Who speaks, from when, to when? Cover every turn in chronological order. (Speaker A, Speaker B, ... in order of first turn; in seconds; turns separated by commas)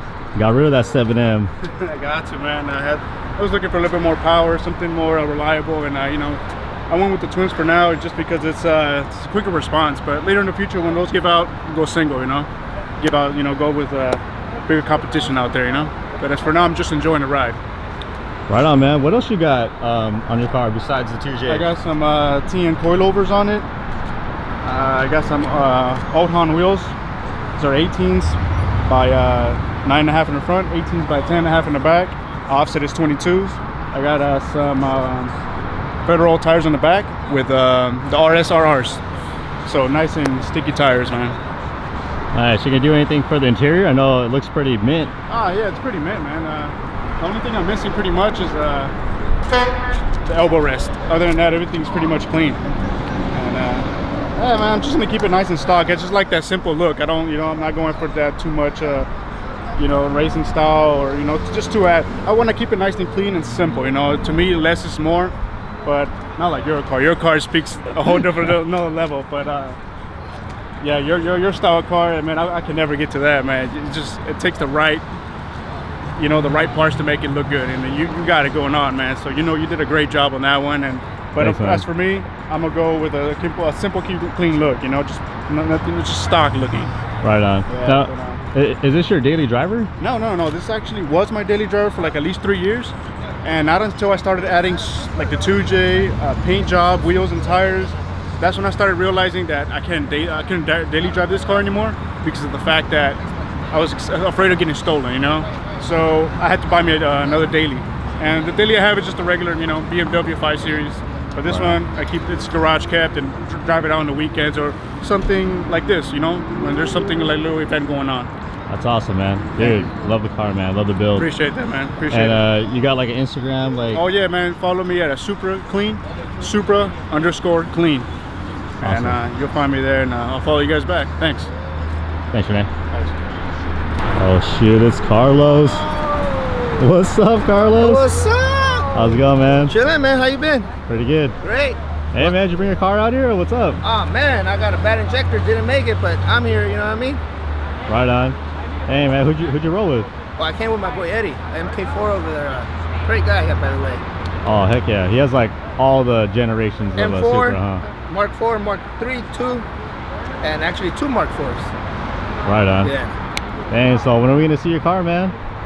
Speaker A: 0.3-1.5, Speaker B: 1.6-17.6, Speaker A: 18.5-21.7, Speaker B: 21.5-23.7, Speaker B: 24.6-26.9, Speaker B: 27.6-35.4, Speaker B: 36.0-39.0, Speaker B: 39.6-41.4, Speaker A: 42.3-45.1, Speaker B: 45.3-48.9, Speaker B: 50.2-52.7, Speaker B: 53.3-59.1, Speaker B: 59.8-65.3, Speaker B: 65.8-69.8, Speaker B: 70.8-75.1, Speaker B: 76.2-86.9, Speaker A: 81.4-81.9, Speaker A: 87.2-89.9, Speaker B: 87.7-88.4, Speaker B: 90.0-103.2, Speaker B: 103.7-118.3, Speaker A: 111.5-111.8, Speaker A: 118.7-121.3, Speaker B: 119.6-119.9, Speaker B: 121.2-122.5, Speaker A: 122.1-124.0, Speaker B: 123.9-128.1, Speaker A: 128.8-129.2, Speaker B: 128.8-131.5, Speaker A: 132.3-132.7, Speaker B: 132.9-133.2, Speaker A: 134.2-135.9, Speaker C: 135.8-136.8, Speaker A: 136.8-138.2, Speaker C: 137.6-140.7, Speaker A: 138.9-139.7, Speaker A: 140.9-141.4, Speaker C: 141.4-142.3, Speaker A: 142.1-143.8, Speaker C: 143.8-147.2, Speaker A: 147.9-150.1, Speaker C: 150.4-154.1, Speaker A: 154.4-157.9, Speaker C: 157.0-159.7, Speaker C: 160.4-161.7, Speaker A: 162.4-162.9, Speaker C: 162.8-163.1, Speaker A: 163.7-165.4